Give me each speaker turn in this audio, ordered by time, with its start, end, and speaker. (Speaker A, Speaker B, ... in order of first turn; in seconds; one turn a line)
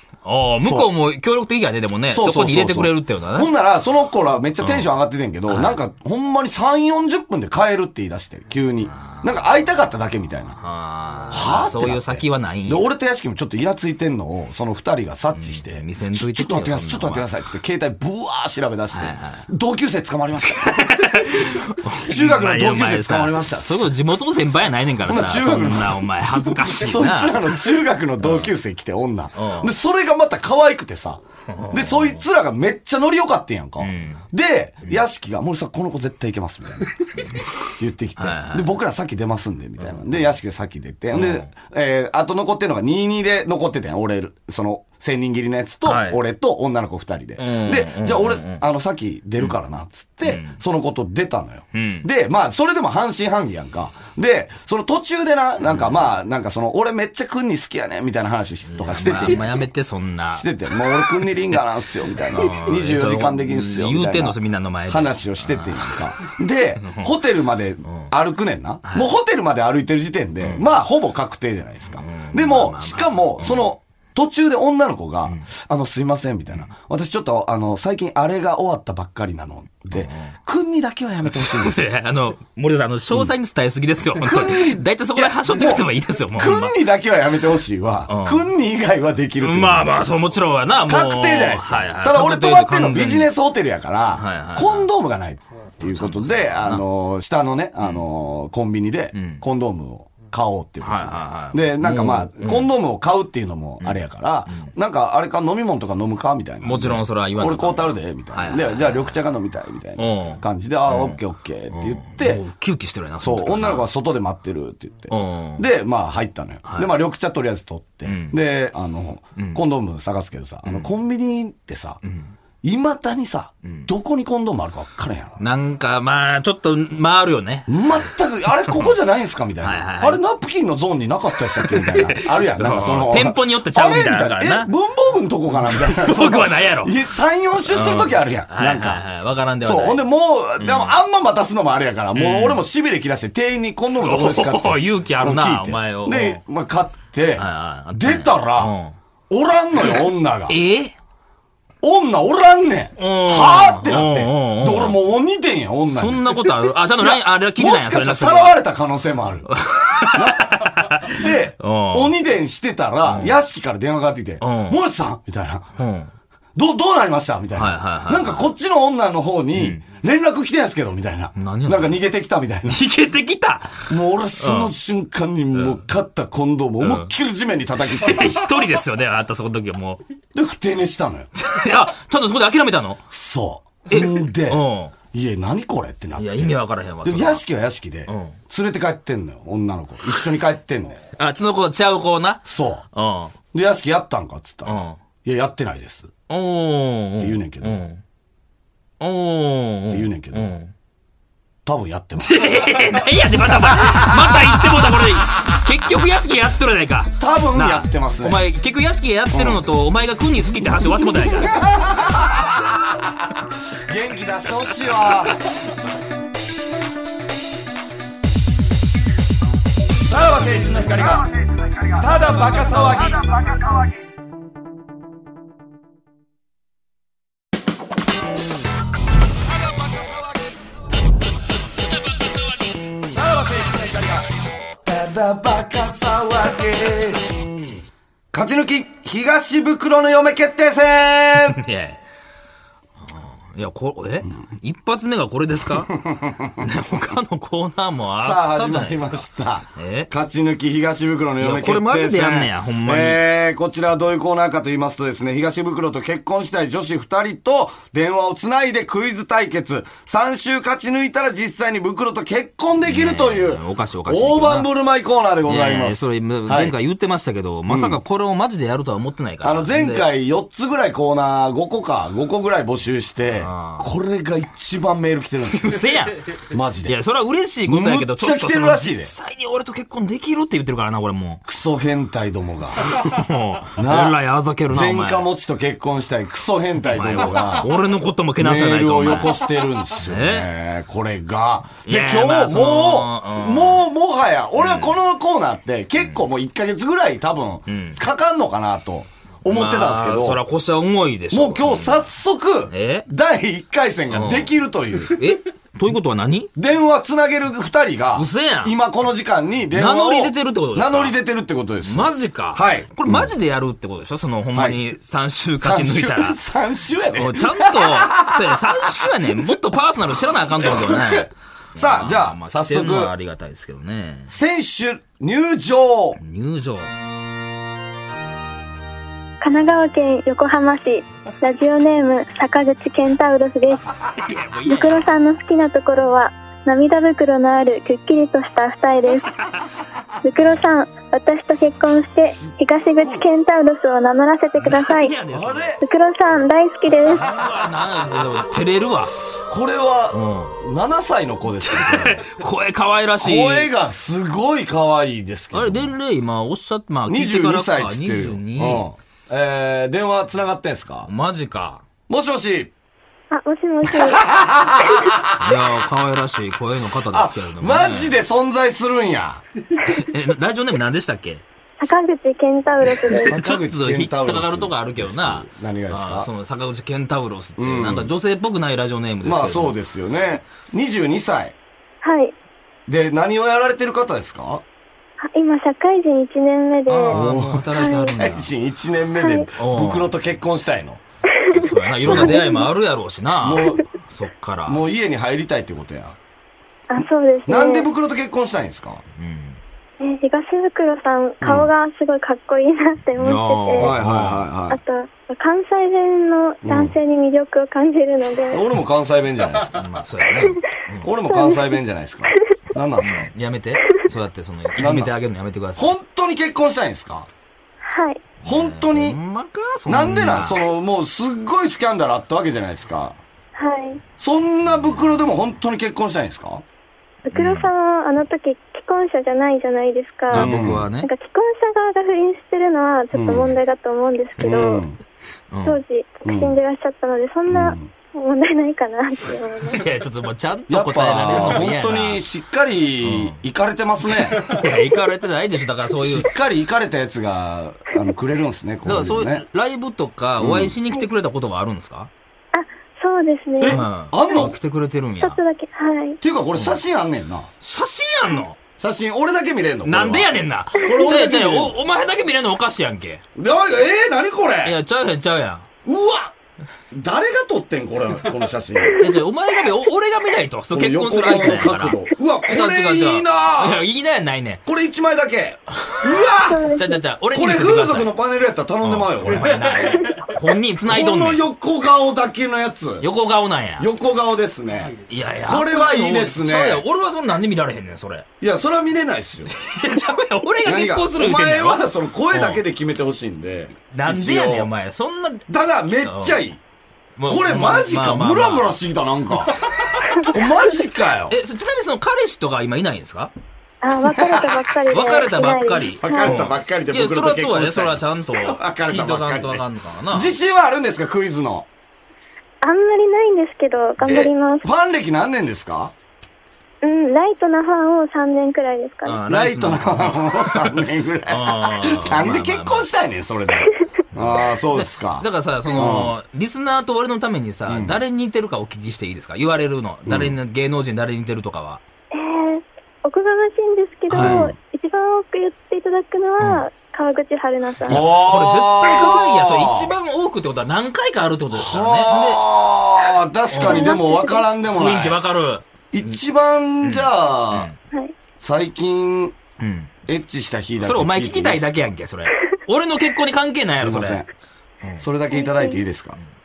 Speaker A: 0.2-3.5
Speaker B: 0.6-0.9
Speaker B: 2.1-10.6
Speaker A: 4.6-4.9
Speaker A: 5.5-5.8
Speaker A: 8.9-9.3
Speaker A: 10.6-12.9
Speaker B: 11.3-23.9
Speaker A: 15.3-17.3
Speaker A: 18.9-19.5
Speaker A: 20.6-27.6
Speaker B: 25.1-59.7
Speaker A: 28.2-28.5
Speaker A: 29.4-29.7
Speaker A: 31.5-32.2
Speaker A: 33.8-34.2
Speaker A: 38.2-38.7
Speaker A: 41.1-41.5
Speaker A: 45.9-46.2
Speaker A: 47.4-48.6
Speaker A: 50.2-50.6
Speaker A: 51.7-52.1
Speaker A: 58.7-60.5
Speaker B: 60.4-64.4
Speaker A: 62.3-66.0
Speaker B: 64.9-81.8
Speaker A: 66.8-67.1
Speaker A: 68.8-69.1
Speaker A: 71.9-73.7
Speaker A: 79.9-80.3
Speaker A: 81.3-86.8
Speaker B: 84.2-90.0
Speaker A: 88.1-88.5
Speaker A: 89.4-93.3
Speaker B: 90.9-112.4
Speaker A: 94.2-94.9
Speaker A: 95.8-96.8
Speaker A: 99.2-99.4
Speaker A: 100.8-102.7
Speaker A: 103.8-104.7
Speaker A: 106.6-109.2
Speaker A: 110.0-111.2
Speaker A: 111.7-113.9
Speaker B: 113.2-122.0
Speaker A: 115.1-115.7
Speaker A: 116.7-116.9
Speaker A: 118.0-118.4
Speaker A: 119.4-119.6
Speaker A: 120.7-120.9
Speaker A: 122.0-122.3
Speaker B: 122.6-125.4
Speaker A: 125.4-128.0
Speaker B: 127.7-139.0
Speaker A: 128.7-128.9
Speaker A: 129.6-130.2
Speaker A: 131.6-134.7
Speaker A: 135.6-137.0
Speaker A: 137.7-140.1
Speaker B: 139.6-148.7
Speaker A: 140.6-141.0
Speaker A: 142.2-142.6
Speaker A: 144.0-146.4
Speaker A: 147.4-148.9
Speaker B: 149.3-150.6
Speaker A: 150.5-150.9
Speaker B: 151.8-159.5
Speaker A: 153.0-155.0
Speaker A: 155.9-158.5
Speaker A: 159.5-162.1
Speaker B: 160.1-165.7
Speaker A: 163.1-163.4
Speaker A: 164.4-164.8
Speaker A: 165.8-166.1
Speaker B: 166.6-172.8
Speaker A: 167.6-168.5
Speaker A: 169.5-169.8
Speaker A: 171.4-172.0
Speaker A: 172.7-173.9
Speaker B: 173.9-178.5
Speaker A: 174.4-174.7
Speaker A: 175.6-175.8
Speaker A: 176.8-177.1
Speaker A: 177.8-180.0
Speaker B: 180.3-181.3
Speaker A: 181.4-183.0
Speaker B: 183.1-184.6
Speaker A: 183.9-184.9
Speaker B: 185.1-191.0
Speaker A: 186.2-187.4
Speaker A: 188.1-188.4
Speaker A: 191.2-193.3
Speaker B: 192.5-192.8
Speaker B: 193.5-196.1
Speaker A: 194.7-195.0
Speaker A: 196.3-198.0
Speaker B: 197.2-197.8
Speaker A: 199.0-200.7
Speaker B: 199.9-200.5
Speaker B: 201.7-202.9
Speaker A: 202.2-211.6
Speaker B: 203.5-205.6
Speaker B: 207.2-208.4
Speaker B: 209.3-209.6
Speaker B: 210.9-213.3
Speaker B: 213.9-215.4
Speaker B: 220.1-221.3
Speaker B: 221.8-223.7
Speaker B: 229.6-230.6
Speaker B: 233.1-234.3
Speaker B: 234.8-237.4
Speaker B: 238.3-241.6
Speaker A: 241.5-242.0
Speaker A: 243.0-246.0
Speaker B: 246.0-246.6
Speaker A: 246.6-249.2
Speaker B: 248.2-266.8
Speaker A: 249.8-250.1
Speaker A: 251.4-253.2
Speaker A: 262.9-264.7
Speaker A: 265.4-270.1
Speaker B: 267.7-268.0
Speaker B: 269.4-275.9
Speaker A: 273.4-273.9
Speaker A: 275.4-276.4
Speaker B: 276.5-277.0
Speaker A: 276.9-281.4
Speaker B: 277.7-279.1
Speaker B: 281.5-283.0
Speaker A: 282.9-285.3
Speaker B: 283.8-284.2
Speaker B: 284.7-287.7
Speaker A: 286.8-289.4
Speaker B: 288.4-300.4
Speaker A: 290.0-290.5
Speaker A: 291.9-293.9
Speaker A: 294.6-295.0
Speaker A: 297.7-298.0
Speaker A: 299.4-302.0
Speaker B: 301.3-305.2
Speaker A: 302.7-303.1
Speaker A: 304.1-304.5
Speaker A: 305.1-306.5
Speaker B: 306.6-313.3
Speaker A: 308.1-308.8
Speaker A: 309.7-311.2
Speaker A: 311.8-316.4
Speaker B: 314.5-314.8
Speaker B: 315.6-319.4
Speaker A: 317.1-324.3
Speaker B: 320.6-323.1
Speaker B: 324.3-326.2
Speaker A: 326.2-326.9
Speaker C: 329.4-334.0
Speaker A: 334.0-335.1
Speaker C: 334.7-339.3
Speaker C: 340.2-345.1
Speaker B: 342.3-343.3
Speaker A: 344.6-345.8
Speaker B: 345.3-345.8
Speaker C: 345.8-347.2
Speaker A: 347.1-349.2
Speaker B: 349.5-352.3
Speaker A: 350.1-350.6
Speaker A: 351.6-353.7
Speaker B: 353.2-355.9
Speaker A: 355.5-358.9
Speaker B: 357.1-361.1
Speaker A: 361.1-361.8
Speaker B: 362.1-362.7
Speaker C: 363.3-364.2
Speaker B: 363.8-365.6
Speaker A: 365.4-368.2
Speaker B: 366.9-369.4
Speaker A: 369.8-371.4
Speaker C: 371.8-373.4
Speaker B: 373.1-376.3
Speaker A: 373.3-379.8
Speaker B: 377.6-378.1
Speaker B: 379.2-381.6
Speaker C: 382.0-382.4
Speaker B: 382.9-384.6
Speaker C: 385.2-387.2
Speaker A: 386.9-388.5
Speaker B: 387.1-391.0
Speaker C: 387.7-388.2
Speaker C: 389.2-389.5
Speaker A: 389.6-390.1
Speaker C: 391.4-392.7
Speaker A: 391.5-394.8
Speaker B: 392.1-392.3
Speaker B: 393.4-393.9
Speaker B: 394.7-396.2
Speaker C: 396.9-397.9
Speaker B: 397.5-399.0
Speaker A: 399.2-399.6
Speaker C: 400.0-404.0
Speaker B: 401.4-401.7
Speaker A: 403.2-404.5
Speaker B: 403.8-404.8
Speaker C: 404.7-408.6
Speaker B: 406.6-406.9
Speaker B: 408.5-410.0
Speaker A: 409.8-411.1
Speaker B: 411.0-413.3
Speaker C: 411.3-411.7
Speaker A: 413.0-415.9
Speaker B: 414.8-415.1
Speaker B: 415.8-417.3
Speaker C: 417.8-418.2
Speaker B: 418.4-419.2
Speaker A: 418.4-420.6
Speaker B: 419.9-423.2
Speaker C: 423.6-424.0
Speaker B: 424.2-426.6
Speaker C: 427.2-434.8
Speaker A: 427.3-427.7
Speaker A: 430.3-431.1
Speaker B: 430.3-430.9
Speaker B: 433.1-433.6
Speaker B: 434.4-435.0
Speaker A: 435.5-435.8
Speaker C: 435.6-439.8
Speaker B: 436.2-436.6
Speaker B: 437.5-437.9
Speaker A: 439.7-442.2
Speaker B: 440.7-444.5
Speaker A: 443.0-443.4
Speaker A: 444.1-446.3
Speaker B: 446.0-449.4
Speaker A: 448.9-452.1
Speaker B: 450.4-450.7
Speaker C: 452.5-453.8
Speaker B: 453.6-454.6
Speaker A: 453.7-455.4
Speaker C: 455.2-456.2
Speaker B: 456.2-457.5
Speaker A: 457.6-458.6
Speaker B: 458.8-461.7
Speaker A: 459.8-463.2
Speaker B: 463.4-464.8
Speaker A: 464.6-465.7
Speaker B: 465.9-466.3
Speaker B: 466.9-469.1
Speaker A: 469.0-474.6
Speaker B: 470.7-473.8
Speaker B: 474.7-476.7
Speaker C: 476.4-477.0
Speaker A: 476.8-478.1
Speaker B: 477.3-480.0
Speaker A: 478.8-481.4
Speaker B: 480.9-483.1
Speaker A: 483.0-483.9
Speaker B: 483.8-486.8
Speaker A: 484.9-488.3
Speaker B: 488.4-489.5
Speaker A: 489.5-492.6
Speaker B: 490.6-494.7
Speaker A: 493.9-495.5
Speaker B: 495.5-496.6
Speaker A: 496.0-496.4
Speaker A: 497.2-498.8
Speaker B: 497.3-499.6
Speaker B: 500.2-501.4
Speaker A: 501.3-503.3
Speaker C: 503.8-506.4
Speaker B: 504.1-504.6
Speaker A: 504.9-510.3
Speaker B: 506.0-511.7
Speaker C: 512.6-514.7
Speaker B: 514.0-515.9
Speaker C: 516.8-519.2
Speaker A: 519.0-522.9
Speaker B: 519.3-526.1
Speaker A: 524.1-531.8
Speaker B: 527.7-528.0
Speaker B: 530.1-530.4
Speaker C: 532.1-538.0
Speaker A: 534.1-534.5
Speaker B: 534.1-534.5
Speaker A: 536.4-536.6
Speaker B: 537.9-539.9
Speaker A: 537.9-542.4
Speaker B: 541.5-545.2
Speaker A: 543.5-544.0
Speaker C: 543.6-544.5
Speaker A: 544.7-546.2
Speaker B: 545.9-547.7
Speaker A: 546.8-547.8
Speaker B: 548.4-549.4
Speaker A: 549.6-549.9
Speaker B: 550.1-551.9
Speaker A: 550.8-554.2
Speaker B: 553.7-554.3
Speaker B: 555.0-556.2
Speaker C: 555.3-555.8